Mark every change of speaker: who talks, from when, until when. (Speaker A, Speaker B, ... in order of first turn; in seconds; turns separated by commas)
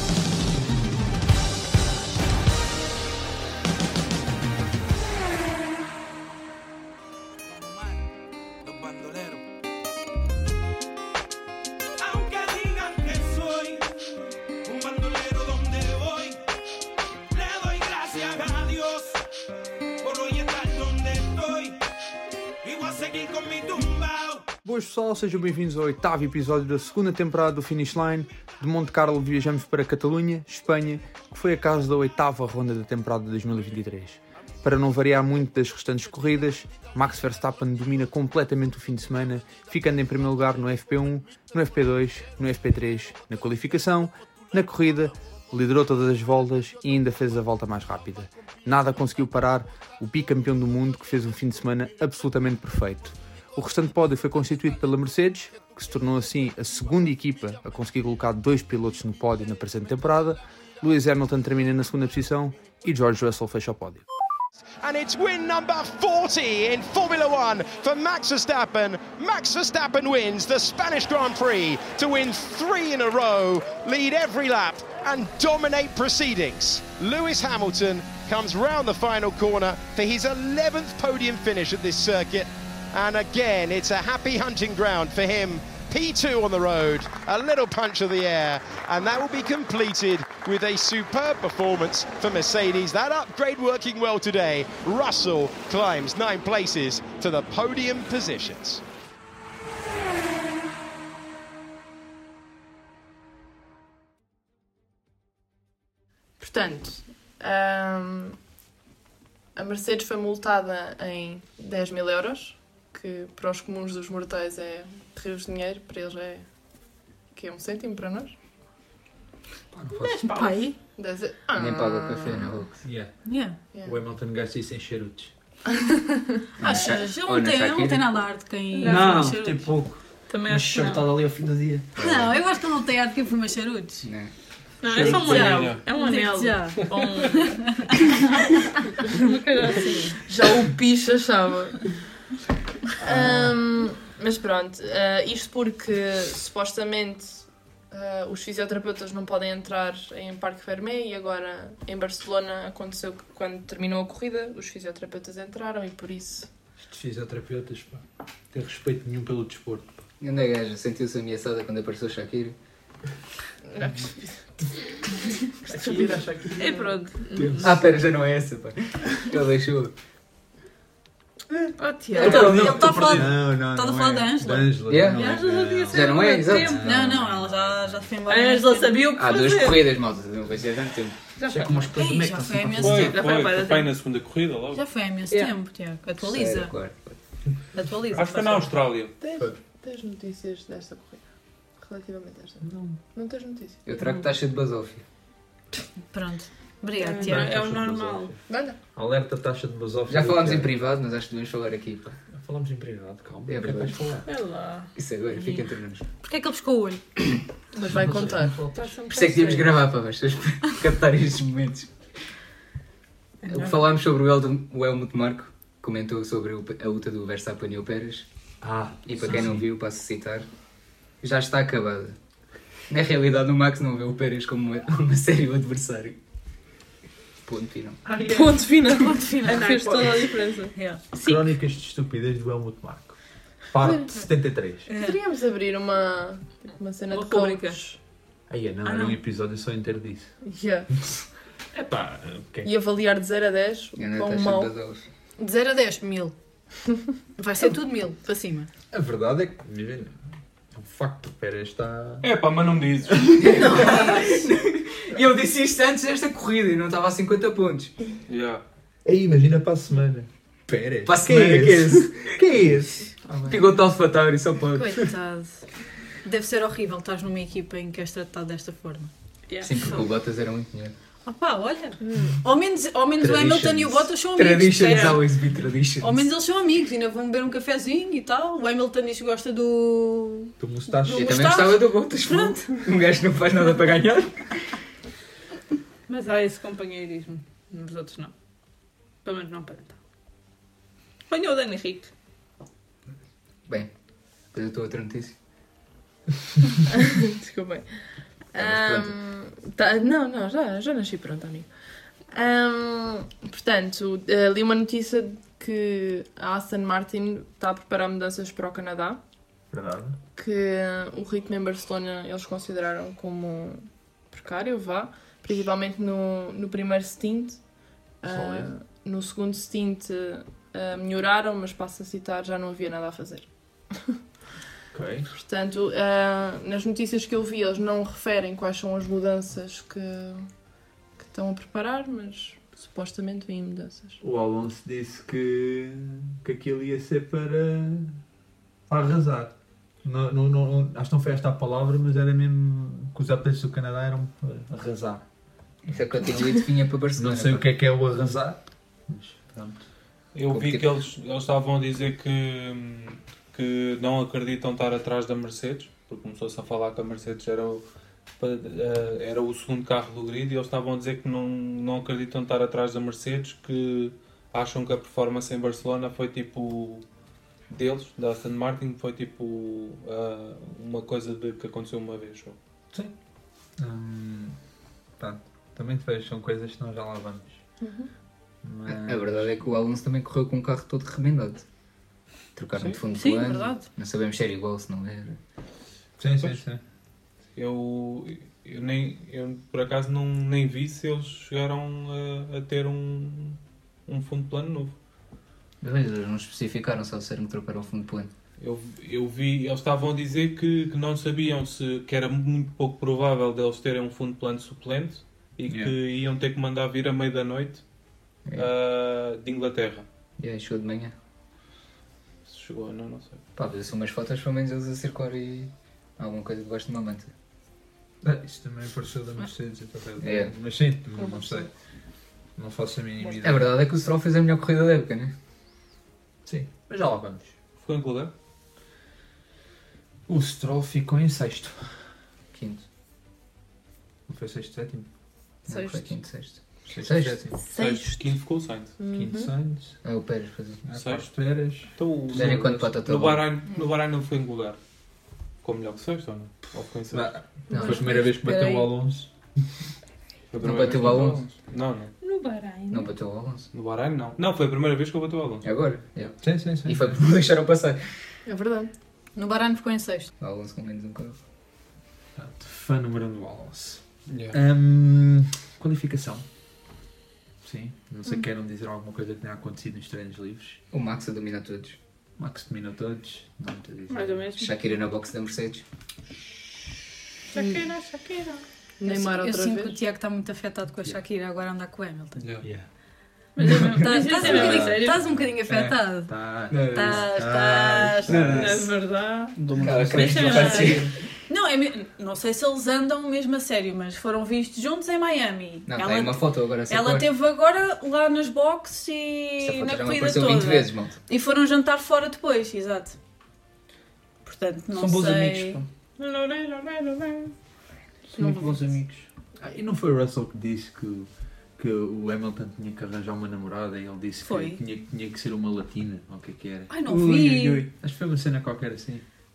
Speaker A: 7.6-8.0, Speaker A: 8.6-9.4, Speaker A: 12.0-13.9, Speaker A: 14.7-16.4, Speaker A: 17.3-19.2, Speaker A: 20.0-21.8, Speaker A: 22.6-24.4, Speaker B: 24.6-64.0, Speaker C: 64.8-98.8, Speaker D: 106.4-108.4, Speaker D: 109.6-116.5, Speaker D: 117.3-118.3, Speaker B: 119.7-120.3, Speaker E: 120.0-120.7, Speaker F: 120.2-120.7, Speaker D: 121.0-122.6, Speaker G: 121.5-122.8, Speaker B: 122.8-123.1, Speaker F: 123.2-123.6, Speaker D: 123.7-124.0, Speaker B: 123.8-125.3, Speaker D: 125.7-126.4, Speaker G: 126.6-128.2, Speaker F: 126.6-129.8, Speaker E: 128.8-129.4, Speaker H: 128.8-131.9, Speaker E: 130.3-131.1, Speaker B: 132.0-132.3, Speaker F: 132.0-134.1, Speaker G: 134.0-134.3, Speaker E: 134.8-137.6, Speaker I: 134.8-135.8, Speaker F: 135.2-138.8, Speaker E: 139.1-140.2, Speaker D: 140.2-142.0, Speaker D: 143.0-156.5, Speaker B: 143.1-143.5, Speaker B: 156.8-160.1, Speaker G: 160.2-162.6, Speaker D: 163.7-164.1, Speaker D: 165.7-166.8, Speaker B: 165.8-166.5, Speaker H: 166.0-166.5, Speaker E: 166.6-167.7, Speaker B: 167.4-167.7, Speaker G: 167.4-169.9, Speaker E: 171.8-173.2, Speaker D: 172.2-172.5, Speaker F: 172.2-174.8, Speaker B: 172.2-178.1, Speaker G: 172.4-172.8, Speaker G: 174.9-177.2, Speaker E: 175.2-177.0, Speaker F: 176.2-179.0, Speaker E: 178.3-179.9, Speaker G: 179.2-181.2, Speaker E: 181.4-182.0, Speaker H: 181.5-183.2, Speaker F: 181.9-183.2, Speaker I: 182.8-184.8, Speaker E: 182.8-184.0, Speaker F: 184.8-186.7, Speaker G: 186.2-187.2, Speaker F: 187.7-188.7, Speaker I: 188.2-189.1, Speaker D: 189.2-191.2, Speaker D: 191.8-193.9, Speaker B: 192.6-193.0, Speaker G: 193.8-195.0, Speaker F: 196.1-197.6, Speaker E: 197.0-198.4, Speaker B: 197.3-198.3, Speaker D: 198.5-198.8, Speaker B: 198.9-200.7, Speaker G: 200.1-202.2, Speaker B: 202.3-204.3, Speaker G: 203.5-204.2, Speaker E: 204.2-204.9, Speaker G: 204.9-206.1, Speaker F: 206.2-207.0, Speaker D: 207.7-209.7, Speaker B: 208.0-208.8, Speaker E: 208.8-209.6, Speaker G: 209.1-211.9, Speaker E: 213.5-213.7, Speaker G: 213.5-218.3, Speaker B: 218.6-219.7, Speaker G: 219.1-220.5, Speaker G: 221.2-222.2, Speaker G: 222.9-226.2, Speaker G: 227.4-228.0, Speaker E: 228.1-228.6, Speaker D: 228.2-230.7, Speaker F: 228.9-231.0, Speaker E: 229.4-231.5, Speaker B: 231.2-234.9, Speaker F: 234.9-235.2, Speaker D: 234.9-237.9, Speaker E: 237.1-237.8, Speaker B: 238.5-240.3, Speaker F: 238.9-239.2, Speaker D: 240.4-240.9, Speaker B: 241.7-242.7, Speaker D: 242.6-244.8, Speaker G: 244.0-245.1, Speaker F: 245.4-246.3, Speaker F: 247.4-248.7, Speaker B: 248.9-250.2, Speaker B: 250.7-252.3, Speaker I: 252.2-253.8, Speaker G: 253.4-257.9, Speaker I: 258.3-258.6, Speaker B: 259.1-263.0, Speaker G: 261.1-265.0, Speaker F: 264.8-265.7, Speaker F: 266.2-269.1, Speaker E: 269.5-270.0, Speaker G: 269.6-270.9, Speaker F: 271.2-275.2, Speaker G: 273.2-276.3, Speaker E: 274.8-275.2, Speaker F: 276.0-280.5, Speaker B: 280.6-281.5, Speaker F: 281.0-282.6, Speaker G: 281.1-284.6, Speaker E: 286.1-288.3, Speaker E: 289.2-290.0, Speaker E: 291.3-292.1, Speaker G: 294.5-295.4, Speaker D: 296.9-297.9, Speaker D: 298.5-301.7, Speaker G: 298.6-299.0, Speaker D: 302.3-309.2, Speaker B: 309.7-310.2, Speaker D: 310.4-317.6, Speaker D: 318.2-324.2, Speaker B: 318.3-318.8, Speaker B: 324.9-325.3, Speaker D: 325.3-330.5, Speaker D: 331.2-334.2, Speaker B: 334.2-338.2, Speaker B: 338.9-345.2, Speaker B: 345.9-346.5, Speaker G: 345.9-347.6, Speaker B: 347.2-349.8, Speaker I: 350.3-357.9, Speaker G: 350.5-351.1, Speaker I: 358.4-367.0, Speaker I: 367.7-372.6, Speaker B: 373.8-374.6, Speaker B: 375.2-377.6, Speaker D: 377.8-378.1, Speaker B: 378.6-379.6, Speaker G: 378.9-381.6, Speaker G: 382.6-385.4, Speaker F: 383.1-383.9, Speaker B: 386.2-386.8, Speaker I: 387.6-395.0, Speaker G: 395.8-398.3, Speaker I: 398.6-407.8, Speaker B: 405.7-405.9, Speaker I: 408.6-410.1, Speaker G: 410.4-411.1, Speaker I: 412.5-413.4, Speaker G: 413.6-417.3, Speaker B: 418.2-421.7, Speaker G: 420.2-420.5, Speaker D: 421.2-421.7, Speaker B: 422.6-423.7, Speaker G: 423.4-425.3, Speaker B: 426.4-427.5, Speaker I: 427.8-428.3, Speaker B: 430.3-432.0, Speaker G: 432.5-432.8, Speaker B: 434.3-435.1, Speaker G: 435.7-437.4, Speaker E: 435.7-436.0, Speaker B: 436.9-437.6, Speaker D: 437.6-438.2, Speaker I: 437.7-438.9, Speaker D: 439.0-439.5, Speaker B: 439.0-440.0, Speaker G: 440.0-440.8, Speaker B: 440.9-442.4, Speaker I: 441.0-441.3, Speaker I: 442.0-444.8, Speaker G: 442.3-443.5, Speaker I: 445.6-447.4, Speaker B: 447.1-449.3, Speaker G: 447.7-448.1, Speaker F: 447.7-448.9, Speaker I: 450.5-452.1, Speaker G: 450.6-451.4, Speaker E: 452.2-453.1, Speaker G: 452.9-453.7, Speaker I: 453.7-455.7, Speaker G: 455.6-458.0, Speaker B: 456.4-457.2, Speaker D: 458.5-458.9, Speaker F: 459.4-460.3, Speaker G: 460.4-461.4, Speaker B: 462.4-466.4, Speaker I: 464.3-464.6, Speaker B: 467.6-470.8, Speaker G: 470.9-472.0, Speaker B: 472.4-474.5, Speaker E: 474.1-474.8, Speaker G: 474.6-475.8, Speaker E: 477.5-478.6, Speaker D: 479.0-480.0, Speaker F: 479.1-482.4, Speaker I: 482.4-482.6, Speaker E: 483.6-485.2, Speaker F: 483.7-486.3, Speaker B: 484.4-485.6, Speaker G: 485.6-486.0, Speaker B: 486.3-488.8, Speaker G: 486.7-487.3, Speaker F: 486.9-488.4, Speaker G: 488.3-488.9, Speaker E: 488.5-491.0, Speaker H: 489.6-491.1, Speaker G: 489.8-491.1, Speaker F: 490.4-491.0, Speaker F: 491.5-503.2, Speaker G: 495.9-497.3, Speaker G: 499.6-501.2, Speaker F: 504.4-505.8, Speaker H: 504.9-505.9, Speaker E: 506.2-507.5, Speaker H: 508.3-509.3, Speaker F: 508.3-508.8, Speaker B: 509.6-516.9, Speaker F: 514.4-514.8, Speaker F: 516.9-517.9, Speaker H: 517.0-517.9, Speaker B: 518.0-519.2